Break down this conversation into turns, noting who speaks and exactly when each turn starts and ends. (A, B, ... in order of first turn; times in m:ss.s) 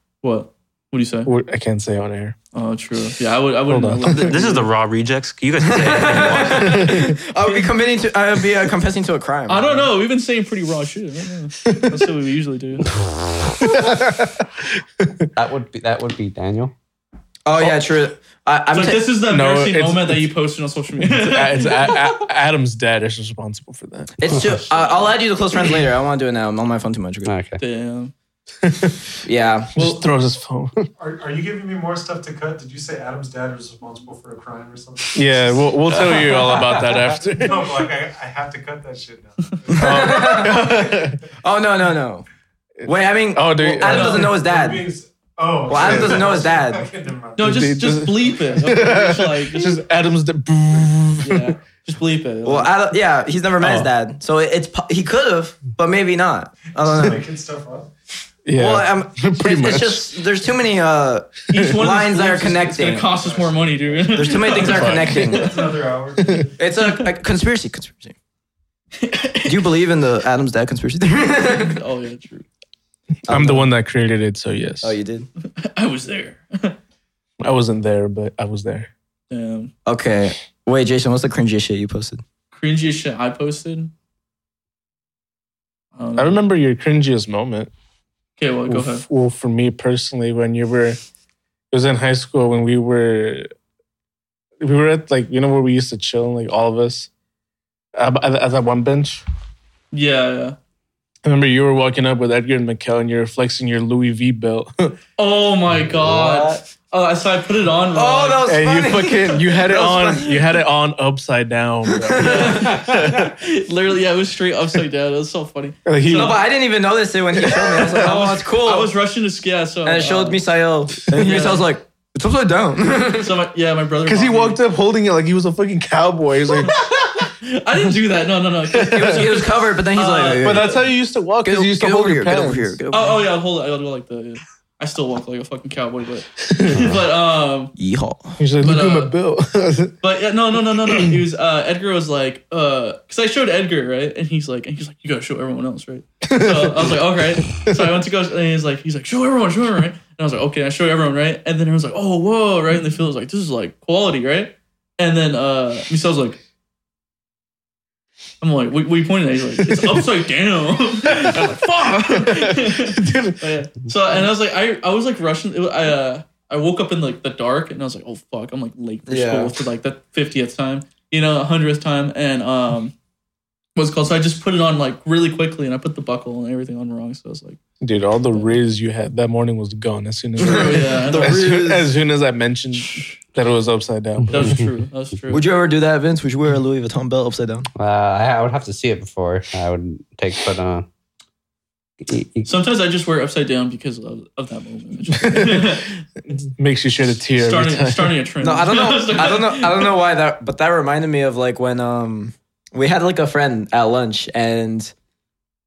0:00.2-0:01.3 A
0:01.2-0:02.4 B
0:02.5-0:04.7 A
0:03.7-0:04.4 B
0:04.0-0:06.9 C
0:05.6-0:09.9 D
0:06.6-0:07.2 B
0:09.5-0:12.9 A
0:11.6-0:12.1 B
0:13.6-0:14.3 B
0:15.0-0:15.3 B
0:15.3-0:16.7 E
0:17.4-0:19.1 D
0:18.7-0:22.1 A
0:19.3-0:20.3 B
0:21.0-0:24.2 B
0:24.2-0:27.3 D
0:24.3-0:24.6 E
0:27.2-0:27.6 E
0:27.6-0:28.1 A
0:28.6-0:29.0 B
0:29.2-0:30.0 D
0:29.7-0:30.9 B
0:31.0-0:40.5 F
0:35.1-0:37.9 B
0:39.7-0:42.2 D
0:39.8-0:41.2 B
0:42.8-0:44.4 B
0:42.8-0:44.9 D
0:43.8-0:48.0 F
0:43.8-0:44.3 A
0:45.7-0:46.8 D
0:45.8-0:46.2 B
0:47.4-0:49.8 A
0:47.4-0:51.5 B
0:51.2-0:52.7 A
0:52.4-0:57.2 D
0:53.6-0:53.9 B
0:56.7-0:57.9 F
0:58.4-1:00.2 B
0:58.5-1:03.1 D
1:01.5-1:05.7 A
1:02.9-1:06.6 F
1:04.1-1:05.7 D
1:04.6-1:05.3 B
1:06.2-1:06.5 B
1:06.6-1:08.1 D
1:09.0-1:09.7 A
1:09.4-1:11.8 D
1:11.5-1:12.4 A
1:13.3-1:13.7 D
1:13.3-1:15.0 B
1:14.8-1:15.3 D
1:15.4-1:16.8 A
1:17.4-1:18.9 B
1:19.3-1:19.7 A
1:19.8-1:22.2 D
1:22.5-1:23.9 A
1:26.0-1:26.4 A
1:26.2-1:27.7 B
1:28.4-1:29.0 A
1:28.7-1:31.0 B
1:31.7-1:33.5 B
1:34.6-1:37.1 B
1:37.9-1:39.2 B
1:39.9-1:40.6 A
1:41.2-1:45.0 B
1:45.2-1:48.4 A
1:45.8-1:46.6 E
1:47.9-1:50.4 D
1:48.4-1:53.3 B
1:51.9-1:52.6 D
1:52.2-1:56.4 A
1:55.8-1:56.4 B
1:56.1-1:58.9 D
1:57.3-1:58.2 B
1:57.4-2:00.4 A
1:59.8-2:03.3 D
2:01.0-2:01.7 A
2:03.2-2:04.6 A
2:04.0-2:06.8 B
2:06.6-2:10.8 A
2:08.7-2:09.3 B
2:08.9-2:10.8 D
2:10.4-2:12.8 B
2:11.4-2:13.2 D
2:12.9-2:17.7 A
2:16.5-2:16.8 B
2:16.7-2:17.0 E
2:17.8-2:18.4 D
2:18.4-2:19.9 B
2:18.6-2:19.1 A
2:20.0-2:36.4 A
2:20.9-2:21.2 B
2:26.2-2:27.8 B
2:38.4-2:52.9 A
2:39.6-2:40.0 B
2:41.0-2:43.4 B
2:49.1-2:49.6 D
2:53.8-2:57.6 A
2:57.8-3:04.6 B
2:58.3-2:58.5 A
3:00.4-3:01.6 A
3:00.4-3:01.9 D
3:04.3-3:05.4 A
3:05.3-3:07.7 D
3:07.8-3:10.8 E
3:12.0-3:12.5 E
3:12.4-3:16.0 A
3:15.1-3:18.2 B
3:17.4-3:20.0 A
3:18.4-3:24.9 D